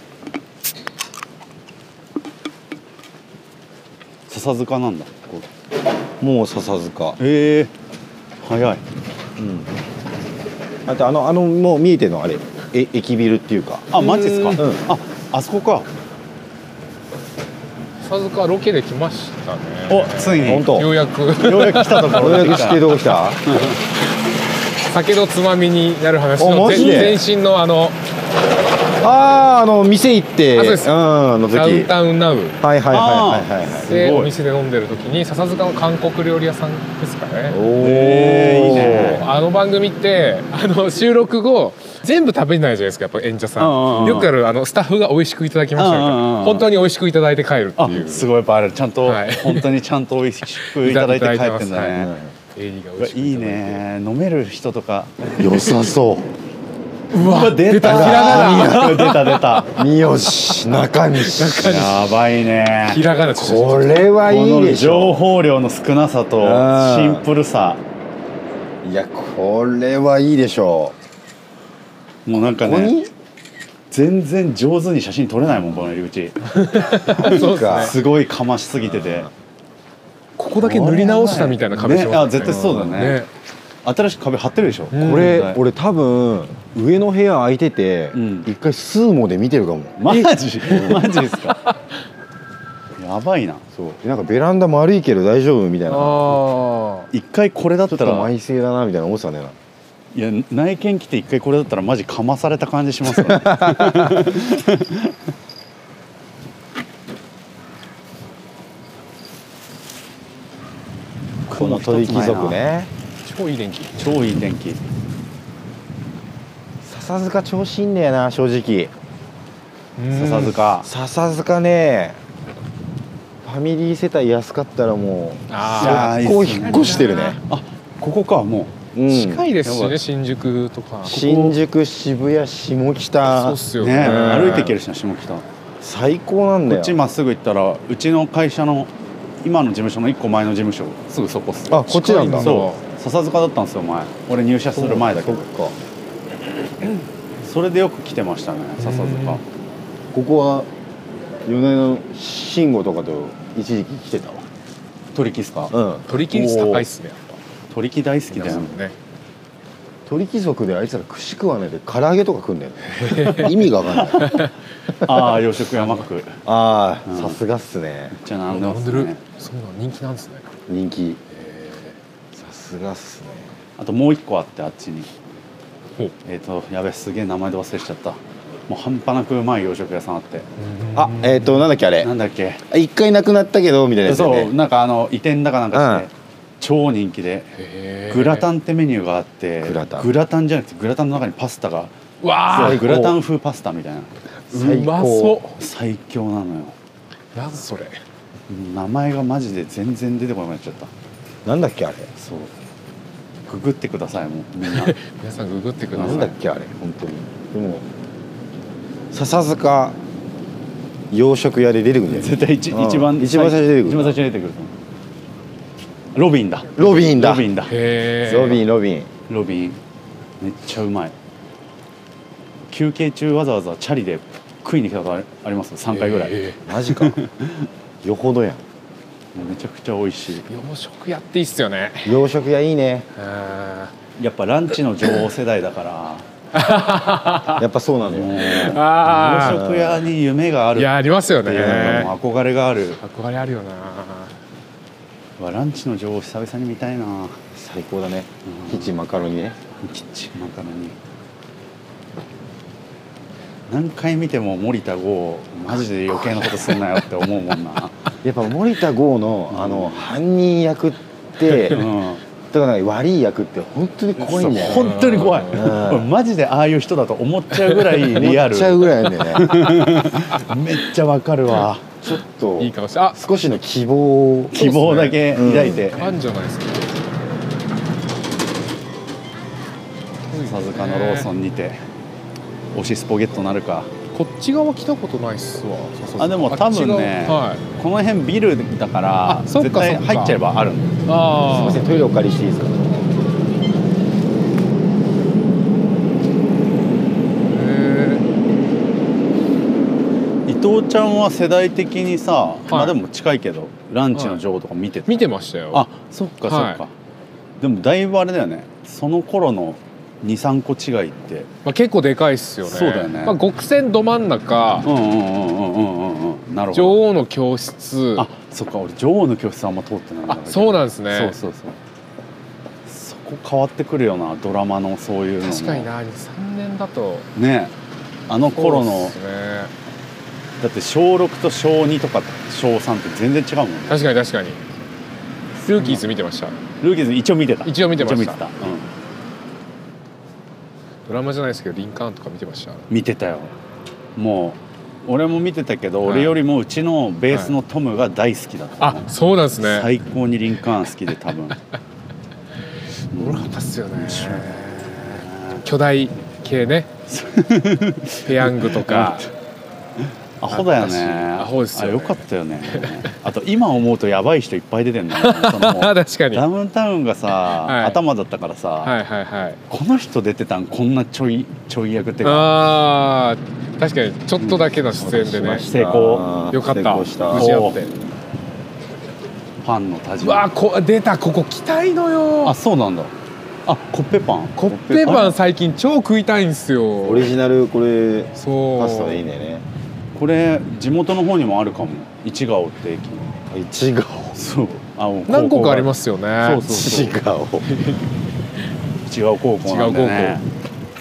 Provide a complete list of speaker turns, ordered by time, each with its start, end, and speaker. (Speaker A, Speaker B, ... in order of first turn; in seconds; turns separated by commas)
Speaker A: 4.3-5.5, Speaker B: 6.2-7.2, Speaker A: 7.2-7.7, Speaker A: 8.4-8.8, Speaker B: 9.4-9.7, Speaker B: 10.8-14.0, Speaker A: 13.9-15.9, Speaker C: 14.2-14.6, Speaker B: 14.6-14.8, Speaker C: 18.0-23.0, Speaker A: 19.9-20.7, Speaker B: 20.4-20.9, Speaker A: 21.4-23.8, Speaker B: 22.2-23.4, Speaker C: 24.9-27.9, Speaker B: 26.4-27.2, Speaker A: 26.8-27.1, Speaker B: 29.0-31.9, Speaker C: 30.5-30.9, Speaker C: 31.5-32.6, Speaker B: 32.6-33.9, Speaker A: 32.9-34.3, Speaker C: 33.8-37.6, Speaker B: 37.5-39.2, Speaker A: 37.8-39.2, Speaker C: 38.7-48.3, Speaker A: 43.6-44.3, Speaker A: 45.8-46.7, Speaker A: 47.8-52.1, Speaker C: 49.0-49.7, Speaker C: 50.6-53.8, Speaker B: 52.0-52.3, Speaker A: 53.0-55.7, Speaker B: 55.4-56.3, Speaker C: 57.1-59.6, Speaker A: 57.1-59.7, Speaker B: 57.8-59.1, Speaker B: 59.7-61.8, Speaker C: 61.2-62.0, Speaker A: 61.5-63.0, Speaker C: 62.8-64.0, Speaker B: 63.3-65.2, Speaker A: 64.2-67.8, Speaker B: 66.4-67.3, Speaker B: 68.8-71.0, Speaker A: 72.2-73.0, Speaker B: 72.5-73.1, Speaker A: 73.9-76.5, Speaker C: 76.5-77.9, Speaker A: 77.1-79.3, Speaker B: 77.2-78.0, Speaker B: 78.9-79.2, Speaker C: 80.4-83.3, Speaker A: 80.6-83.2, Speaker B: 82.4-83.1, Speaker A: 83.8-85.6, Speaker C: 84.9-85.4, Speaker B: 85.0-91.1, Speaker A: 88.1-88.5, Speaker A: 90.0-91.7, Speaker C: 90.7-91.8, Speaker A: 93.0-93.6, Speaker B: 93.8-96.4, Speaker C: 95.9-97.1, Speaker A: 97.1-98.3, Speaker B: 97.9-99.6, Speaker A: 100.1-105.1, Speaker B: 103.2-104.3, Speaker B: 111.5-112.9, Speaker A: 111.5-112.6, Speaker C: 113.2-114.0, Speaker A: 114.0-114.8, Speaker B: 116.8-118.9, Speaker C: 120.0-120.6, Speaker A: 120.1-120.9, Speaker B: 120.8-122.2, Speaker B: 123.4-127.4, Speaker C: 125.5-127.4, Speaker A: 125.8-128.7, Speaker B: 128.9-129.5, Speaker C: 129.1-131.2, Speaker A: 129.6-130.0, Speaker A: 131.1-131.6, Speaker B: 131.1-134.7, Speaker C: 133.3-134.7, Speaker A: 133.8-135.4, Speaker B: 135.8-137.0, Speaker A: 136.7-138.9, Speaker A: 139.4-145.4, Speaker B: 141.7-142.6, Speaker C: 141.9-142.8, Speaker B: 144.7-145.8, Speaker A: 147.4-149.4, Speaker C: 148.8-149.4, Speaker B: 150.1-150.7, Speaker B: 151.4-154.4, Speaker A: 155.1-156.9, Speaker B: 155.7-156.1, Speaker C: 156.1-157.4, Speaker A: 157.7-158.8, Speaker C: 158.4-158.9, Speaker B: 160.1-164.4, Speaker C: 163.0-163.5, Speaker A: 164.2-164.4, Speaker C: 164.2-164.5, Speaker A: 164.9-166.4, Speaker B: 166.4-168.1, Speaker A: 167.1-167.4, Speaker A: 168.1-169.2, Speaker C: 168.5-170.4, Speaker B: 170.7-171.2, Speaker C: 171.4-171.9, Speaker B: 172.3-173.5, Speaker A: 173.8-175.1, Speaker A: 176.2-180.5, Speaker C: 180.6-181.7, Speaker B: 180.9-182.1, Speaker A: 182.0-182.6, Speaker B: 182.7-184.6, Speaker A: 184.0-187.5, Speaker B: 185.7-186.1, Speaker C: 187.6-188.5, Speaker A: 188.1-191.9, Speaker B: 189.6-190.1, Speaker C: 192.2-192.9, Speaker A: 192.5-194.1, Speaker B: 192.5-193.2, Speaker B: 194.5-195.4, Speaker C: 194.5-195.6, Speaker A: 195.6-196.8, Speaker C: 197.3-198.0, Speaker A: 198.5-200.9, Speaker B: 201.4-202.1, Speaker A: 202.2-202.5, Speaker A: 203.5-204.9, Speaker C: 204.7-206.3, Speaker A: 205.9-206.3, Speaker B: 205.9-207.9, Speaker B: 209.1-210.0, Speaker B: 211.1-214.2, Speaker A: 212.1-214.7, Speaker A: 216.1-217.8, Speaker B: 216.8-217.5, Speaker C: 217.7-218.6, Speaker B: 218.2-219.1, Speaker A: 219.3-219.8, Speaker A: 220.4-221.1, Speaker A: 222.7-227.7, Speaker C: 225.9-226.6, Speaker B: 226.7-227.2, Speaker B: 228.0-228.6, Speaker A: 229.3-230.5, Speaker C: 230.5-232.2, Speaker B: 232.1-233.1, Speaker C: 233.2-233.9, Speaker A: 234.2-236.3, Speaker C: 236.5-237.6, Speaker B: 237.6-238.6, Speaker A: 238.1-243.0, Speaker C: 238.4-239.6, Speaker B: 239.4-240.1, Speaker C: 240.8-242.1, Speaker B: 241.6-242.1, Speaker C: 243.0-244.3, Speaker A: 245.4-247.4, Speaker B: 247.5-249.6, Speaker A: 248.4-248.9, Speaker A: 249.8-250.9, Speaker A: 253.7-258.0, Speaker B: 258.2-261.9, Speaker A: 259.5-260.1, Speaker A: 261.5-262.2, Speaker B: 262.5-266.1, Speaker A: 264.2-271.8, Speaker C: 264.7-265.7, Speaker B: 268.1-269.7, Speaker B: 272.0-275.9, Speaker C: 272.6-273.2, Speaker A: 274.5-276.1, Speaker C: 274.8-277.0, Speaker C: 280.3-281.3, Speaker A: 280.4-281.8, Speaker A: 282.7-283.9, Speaker C: 284.1-287.6, Speaker A: 286.2-291.0, Speaker C: 289.3-290.4, Speaker C: 291.1-291.9, Speaker B: 291.4-293.1, Speaker C: 297.5-298.2, Speaker A: 300.5-306.9, Speaker C: 302.7-302.9, Speaker C: 304.1-304.4, Speaker C: 305.1-305.9, Speaker C: 306.5-306.8, Speaker A: 307.6-311.5, Speaker C: 311.6-314.9, Speaker A: 312.6-313.4, Speaker A: 314.8-317.0, Speaker C: 316.7-318.3, Speaker A: 318.1-321.8, Speaker C: 320.3-321.4, Speaker A: 322.9-325.9, Speaker C: 325.4-327.3, Speaker A: 327.3-327.7, Speaker A: 328.3-329.2, Speaker C: 328.5-329.7, Speaker A: 330.6-334.0, Speaker C: 333.9-334.6, Speaker C: 335.6-336.6, Speaker A: 336.8-338.9, Speaker C: 337.6-338.4, Speaker C: 341.1-342.9, Speaker A: 342.9-343.5, Speaker A: 344.2-351.6, Speaker C: 346.1-346.4, Speaker C: 348.8-349.9, Speaker A: 353.1-355.6, Speaker C: 353.2-356.9, Speaker A: 357.1-359.3, Speaker C: 358.2-359.3, Speaker A: 360.0-368.9, Speaker C: 360.5-363.1, Speaker C: 365.2-366.4, Speaker C: 367.6-368.0, Speaker C: 368.8-369.6, Speaker A: 369.7-372.5, Speaker C: 372.2-375.7, Speaker A: 374.4-376.3, Speaker B: 375.4-377.6, Speaker C: 376.5-378.0, Speaker A: 377.4-377.9, Speaker A: 379.6-380.4, Speaker C: 380.2-382.6, Speaker A: 382.4-383.1, Speaker A: 383.7-385.4, Speaker C: 384.6-387.3, Speaker B: 387.0-389.6, Speaker C: 388.4-389.2, Speaker A: 390.1-393.3, Speaker B: 393.5-394.4, Speaker A: 394.4-397.1, Speaker C: 395.3-396.7, Speaker B: 396.7-397.7, Speaker C: 397.7-398.0, Speaker A: 399.1-400.4, Speaker C: 399.6-400.4